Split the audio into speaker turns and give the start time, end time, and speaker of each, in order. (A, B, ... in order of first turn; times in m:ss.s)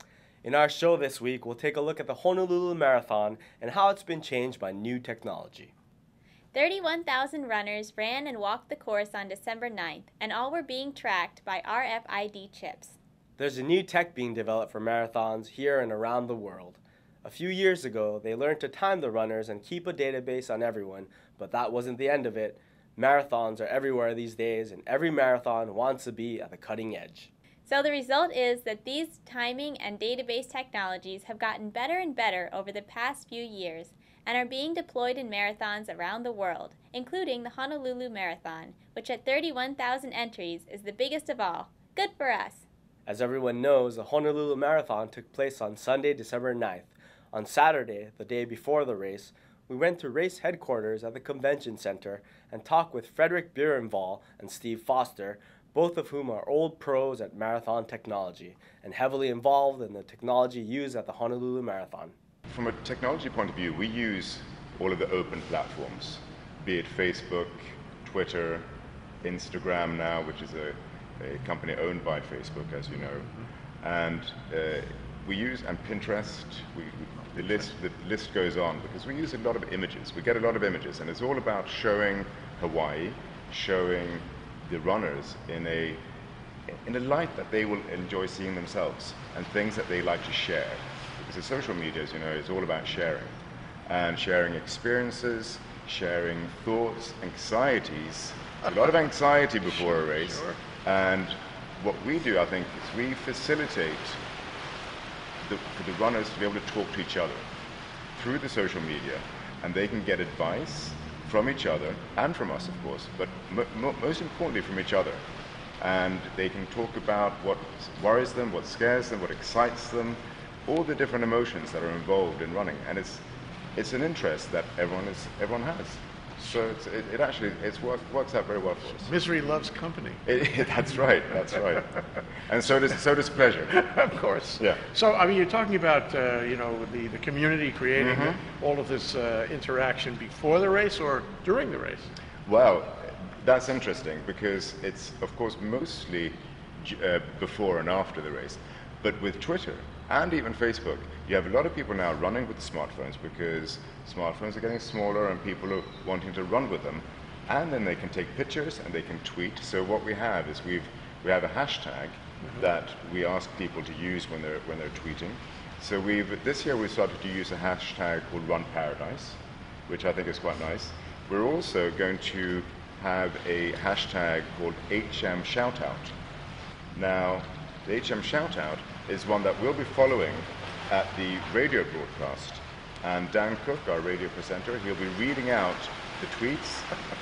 0:00.4-0:05.7 A
0:06.5-0:13.0 B
0:13.4-0:27.3 A
0:27.6-0:42.6 B
0:43.0-1:02.1 A
1:02.5-1:08.7 C
1:09.2-1:26.0 C
1:26.7-1:44.2 C
1:39.7-1:40.6 D
1:45.4-1:47.5 C
1:48.1-1:55.2 C
1:55.8-2:09.1 C
2:09.0-2:10.2 D
2:10.2-2:13.8 C
2:13.7-2:22.1 D
2:17.9-2:18.4 C
2:22.4-2:56.1 C
2:56.9-3:06.9 C